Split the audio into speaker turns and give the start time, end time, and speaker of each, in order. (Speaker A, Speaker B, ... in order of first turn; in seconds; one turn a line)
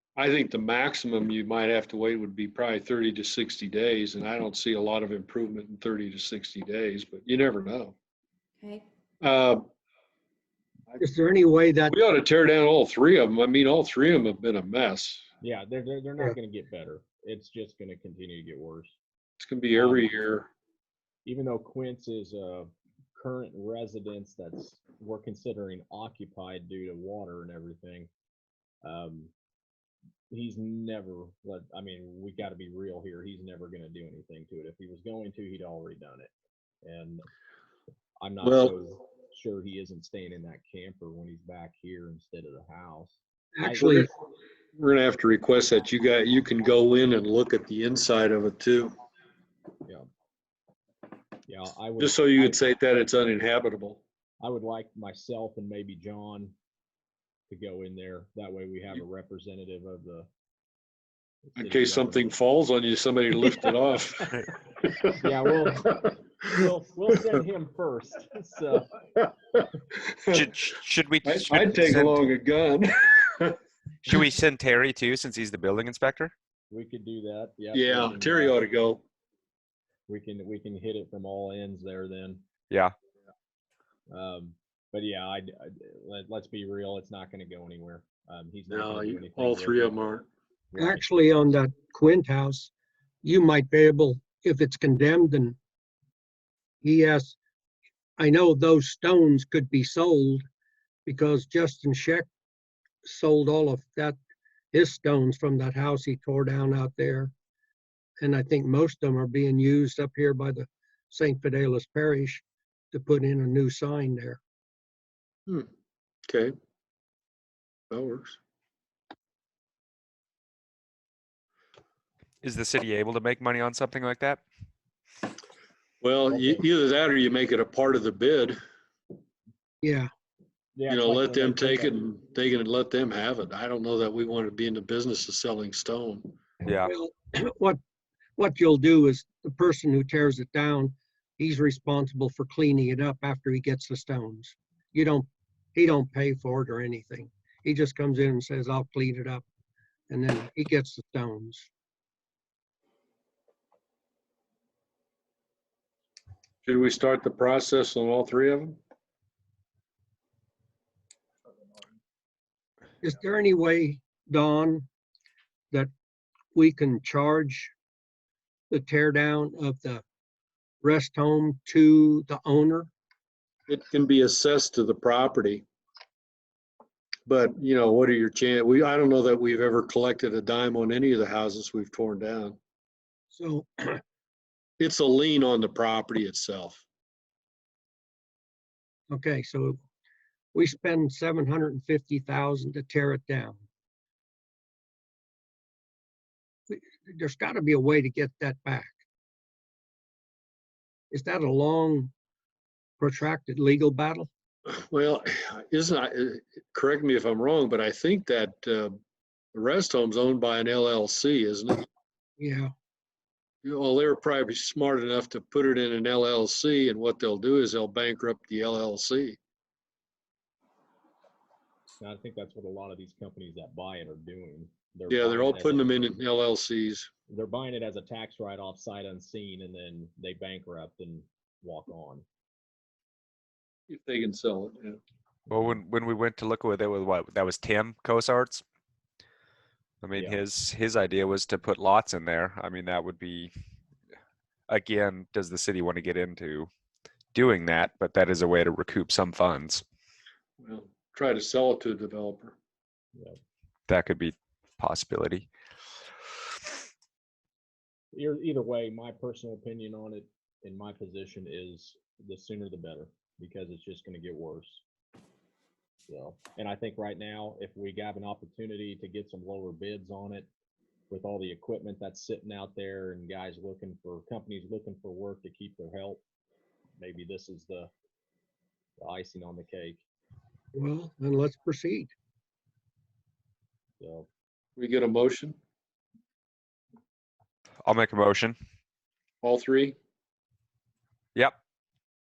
Speaker A: 0.2-7.9
Speaker A: 9.2-9.6
Speaker B: 11.0-12.0
Speaker A: 11.9-15.2
Speaker C: 15.4-18.9
Speaker A: 19.4-20.5
Speaker C: 19.7-20.2
Speaker C: 21.2-28.1
Speaker C: 28.8-29.3
Speaker C: 30.3-36.3
Speaker C: 36.8-37.2
Speaker C: 38.2-44.1
Speaker A: 38.4-38.7
Speaker B: 43.6-44.1
Speaker A: 44.8-48.9
Speaker C: 51.5-52.6
Speaker A: 52.0-54.0
Speaker C: 54.4-56.5
Speaker C: 57.5-60.3
Speaker C: 61.6-62.3
Speaker A: 61.6-65.2
Speaker C: 65.2-68.9
Speaker D: 70.3-72.2
Speaker A: 71.2-73.6
Speaker D: 74.0-76.3
Speaker C: 76.7-78.6
Speaker A: 77.7-79.0
Speaker C: 80.1-82.4
Speaker C: 84.1-90.0
Speaker A: 88.7-90.3
Speaker C: 90.7-91.1
Speaker B: 90.8-92.7
Speaker B: 93.2-95.5
Speaker B: 96.8-97.4
Speaker B: 98.2-100.4
Speaker B: 101.0-102.2
Speaker B: 103.0-104.2
Speaker B: 104.7-107.3
Speaker B: 108.2-114.4
Speaker A: 116.3-116.5
Speaker A: 117.9-118.4
Speaker D: 122.4-124.4
Speaker A: 126.0-128.6
Speaker C: 126.3-126.6
Speaker B: 129.8-130.1
Speaker C: 130.8-132.0
Speaker A: 130.9-136.3
Speaker D: 136.6-136.9
Speaker B: 136.8-137.8
Speaker B: 138.4-149.4
Speaker B: 150.1-151.7
Speaker A: 156.7-158.8
Speaker B: 163.0-164.9
Speaker B: 166.5-167.7
Speaker B: 168.7-170.0
Speaker B: 170.8-172.9
Speaker A: 173.7-175.6
Speaker A: 177.3-182.6
Speaker B: 183.3-184.0
Speaker A: 184.8-186.8
Speaker B: 189.1-189.8
Speaker B: 190.5-193.6
Speaker B: 196.7-199.0
Speaker B: 201.1-202.1
Speaker B: 203.0-204.3
Speaker A: 204.7-208.9
Speaker A: 209.5-211.8
Speaker B: 212.4-212.7
Speaker A: 213.6-219.4
Speaker C: 222.0-226.1
Speaker A: 225.1-227.1
Speaker C: 227.3-232.2
Speaker A: 233.9-235.0
Speaker D: 235.5-238.6
Speaker D: 240.0-243.5
Speaker C: 240.1-240.4
Speaker D: 244.7-246.7
Speaker D: 247.3-249.8
Speaker A: 250.6-252.5
Speaker D: 253.9-255.5
Speaker C: 258.1-264.8
Speaker C: 266.1-270.5
Speaker C: 271.1-276.2
Speaker C: 277.0-277.9
Speaker C: 279.0-280.0
Speaker B: 280.7-282.1
Speaker C: 284.0-284.3
Speaker A: 284.8-285.6
Speaker D: 287.8-288.6
Speaker A: 289.4-289.9